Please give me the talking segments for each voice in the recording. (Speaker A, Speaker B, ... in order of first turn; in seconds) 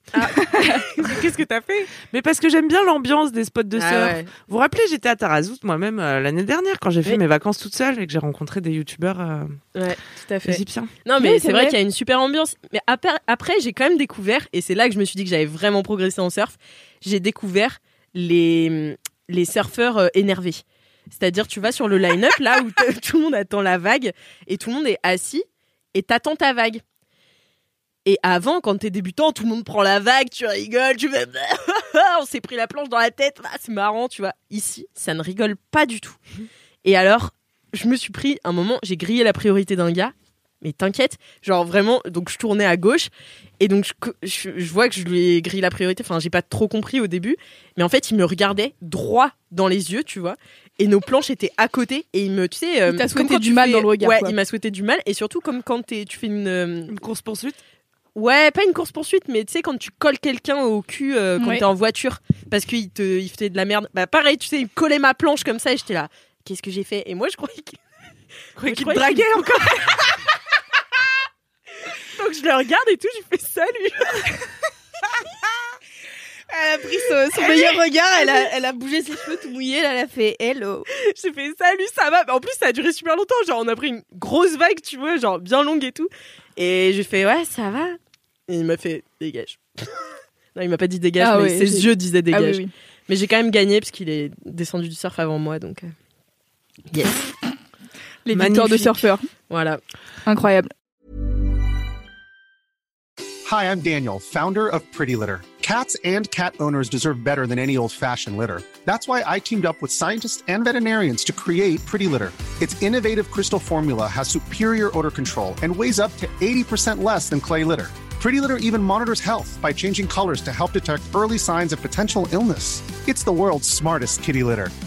Speaker A: 0.1-1.9, 3.8-4.3, 9.7-26.8, 28.0-36.2, 36.8-57.0, 58.1-67.8, 68.5-70.2, 71.9-74.4, 77.4-78.5, 80.9-87.9, 88.5-90.0, 90.5-95.9, 96.9-97.3, 99.5-99.8
Speaker B: 2.0-9.6, 10.5-10.9, 56.9-57.6, 68.6-69.3, 98.3-99.0
Speaker C: 11.2-11.7, 52.9-54.3, 61.4-61.6, 76.5-80.8, 91.2-92.7, 98.2-99.3, 100.2-100.7
Speaker D: 103.4-124.7